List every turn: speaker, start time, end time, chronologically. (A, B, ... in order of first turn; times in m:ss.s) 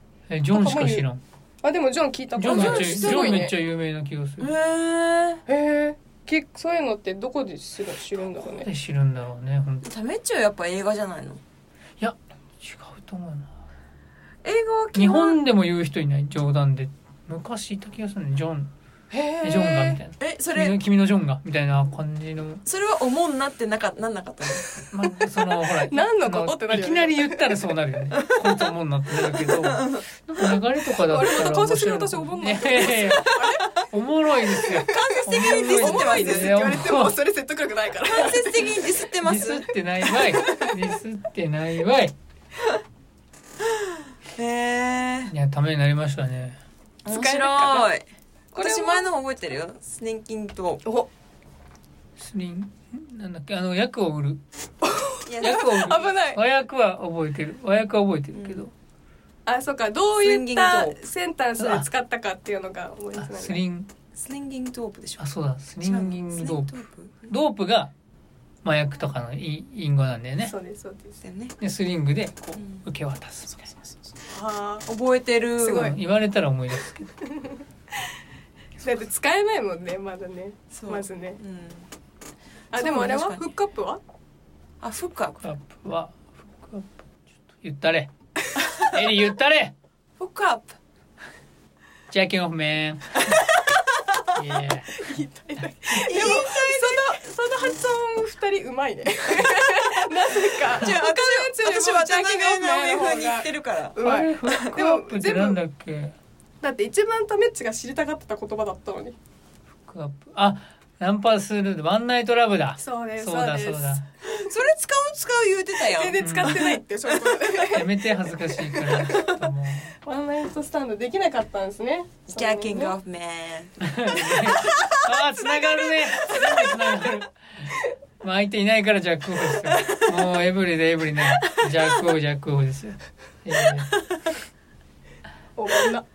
0:00.3-0:01.2 A
0:00.5-0:01.0 B
0:01.6-0:03.5 B
0:02.4-0:04.5 A
0:02.5-0:03.2 C
0:04.4-0:05.4 C
0:05.5-0:08.7 B
0:08.4-0:09.8 A
0:09.8-0:11.4 C
0:12.0-0:13.5 A
0:14.4-0:15.4 C
0:14.9-0:18.7 A
0:19.1-0:20.0 B
0:19.4-0:22.6 A
0:20.2-0:20.8 C
0:22.6-0:24.7 C
0:24.9-0:37.2 A
0:25.6-0:27.6 B
0:28.1-0:28.7 C
0:29.2-0:30.0 C
0:31.1-0:33.8 B
0:33.3-0:33.8 C
0:34.5-0:39.0 B
0:35.2-0:36.7 C
0:38.0-0:40.7 C
0:39.2-0:42.1 A
0:43.6-0:45.3 C
0:45.3-0:46.6 A
0:47.0-0:48.0 C
0:47.1-0:47.9 B
0:48.5-0:50.8 C
0:48.6-0:49.1 B
0:50.8-0:51.1 B
0:52.2-0:54.4 A
0:54.8-0:56.4 B
0:55.2-0:55.9 C
0:55.4-0:58.7 A
0:58.3-0:58.6 C
0:59.4-1:03.6 B
1:00.2-1:01.0 C
1:01.6-1:01.8 A
1:03.2-1:03.9 A
1:04.1-1:05.2 C
1:05.2-1:07.9 A
1:05.8-1:07.3 C
1:08.6-1:10.5 A
1:10.4-1:11.2 B
1:11.2-1:11.6 C
1:11.6-1:13.7 A
1:12.6-1:12.8 C
1:14.0-1:14.9 B
1:14.9-1:16.0 C
1:15.6-1:16.0 B
1:15.7-1:17.2 A
1:17.2-1:17.6 B
1:18.8-1:21.4 B
1:20.7-1:21.9 C
1:22.7-1:24.0 B
1:22.7-1:23.5 C
1:24.8-1:25.4 C
1:25.4-1:27.0 A
1:27.5-1:28.1 A
1:28.8-1:29.7 A
1:30.2-1:30.8 C
1:32.1-1:33.4 A
1:33.2-1:34.2 C
1:34.3-1:35.2 A
1:34.9-1:45.6 B
1:36.0-1:37.2 C
1:39.4-1:44.8 C
1:44.0-1:46.2 A
1:46.6-1:49.2 B
1:49.8-1:54.0 A
1:52.8-1:54.0 B
1:54.2-1:57.5 C
1:55.8-1:57.9 B
1:56.2-1:56.8 A
1:57.6-2:00.0 A
1:58.8-1:59.4 C
2:00.0-2:03.0 B
2:02.3-2:06.7 C
2:03.8-2:14.0 A
2:15.6-2:16.0 B